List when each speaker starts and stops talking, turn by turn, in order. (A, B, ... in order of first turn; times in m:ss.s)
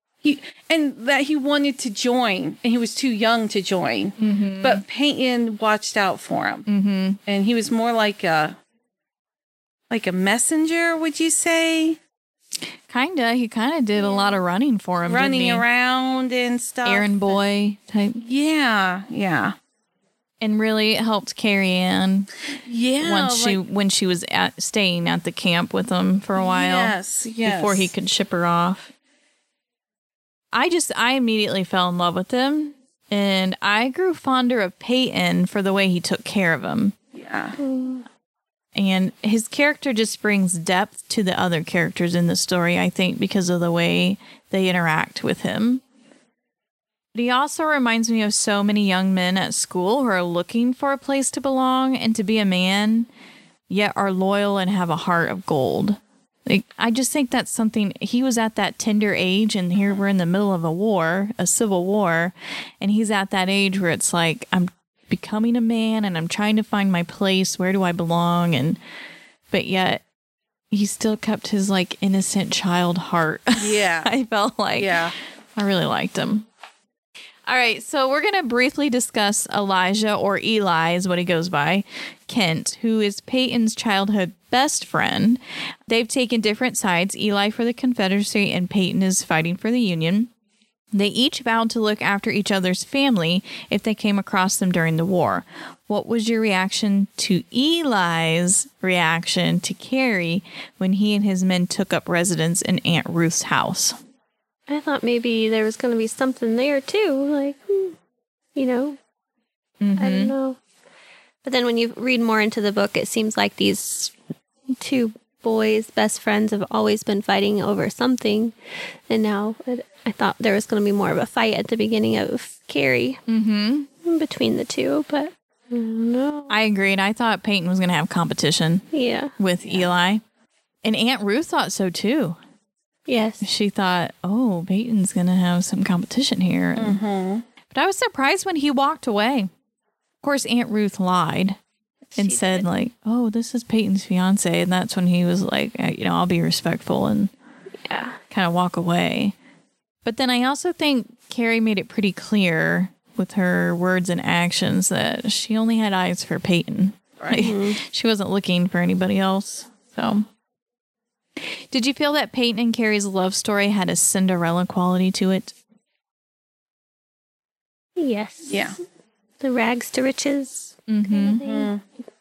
0:00.2-0:06.7 A
0:04.2-0:04.8 B
0:06.7-0:07.2 B
0:07.3-0:08.6 A
0:09.9-0:12.0 A
0:12.9-0:15.6 B
0:15.0-0:17.4 A
0:16.8-0:18.2 B
0:18.2-0:19.6 A
0:20.4-0:22.3 B
0:22.7-0:23.6 A
0:23.0-0:28.9 B
0:26.4-0:27.9 A
0:30.5-0:37.0 B
0:37.1-0:37.6 A
0:37.6-0:38.0 C
0:38.8-0:45.8 B
0:47.1-0:53.1 B
0:53.7-1:08.8 B
1:09.5-1:10.0 B
1:10.7-1:15.0 B
1:13.6-1:14.1 A
1:14.8-1:15.2 A
1:15.6-1:16.5 B
1:17.5-1:30.3 B
1:30.9-1:44.0 B
1:44.7-1:48.0 C
1:48.6-1:49.0 C
1:49.8-1:50.3 B
1:50.0-1:50.6 C
1:51.4-1:54.1 C
1:54.7-1:58.6 C
1:59.1-2:03.2 C
2:03.3-2:03.9 B
2:04.0-2:06.6 C
2:06.5-2:10.2 B
2:08.9-2:09.9 C
2:10.8-2:12.4 B
2:13.1-2:13.5 C
2:13.4-2:17.0 B
2:16.8-2:17.4 A
2:17.7-2:19.5 B
2:20.2-2:21.6 B
2:22.1-2:22.7 C
2:22.2-2:27.3 B
2:27.8-2:28.2 C
2:28.3-2:29.4 B
2:30.0-2:40.3 B
2:37.2-2:37.5 A
2:37.3-2:37.8 C
2:41.4-2:45.6 B
2:48.0-2:48.7 C
2:48.5-2:48.8 A
2:49.4-2:51.7 C
2:50.9-2:51.4 B
2:51.3-2:51.8 A